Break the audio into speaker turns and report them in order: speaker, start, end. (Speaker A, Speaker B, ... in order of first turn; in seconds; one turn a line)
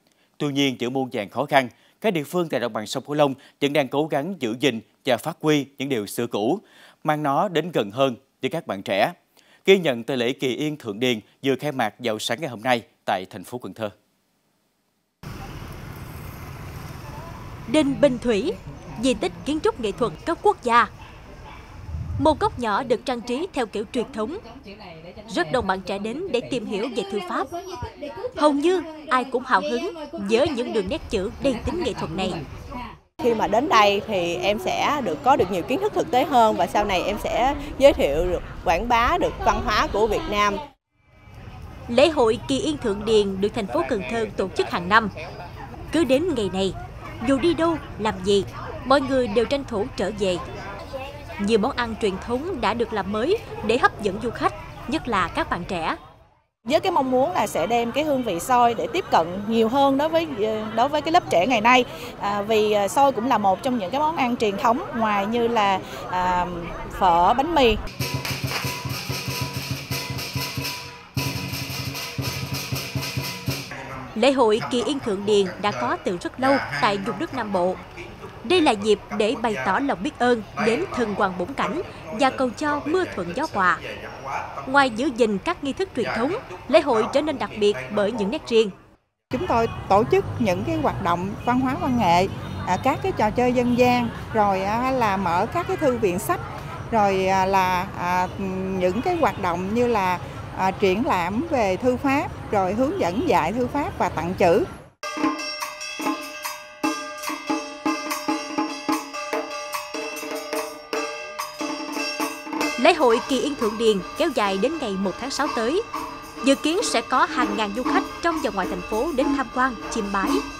Speaker A: 0.4-13.9
Speaker B: 17.7-20.9
Speaker B: 22.2-24.4
Speaker B: 25.3-27.5
Speaker B: 28.4-32.4
Speaker C: 33.2-40.6
Speaker B: 41.9-45.1
Speaker B: 45.9-50.4
Speaker B: 51.4-56.0
Speaker D: 56.6-67.8
Speaker B: 74.2-77.8
Speaker B: 78.4-83.8
Speaker B: 84.7-88.7
Speaker E: 89.3-104.7
Speaker B: 112.8-115.8
Speaker B: 116.4-120.4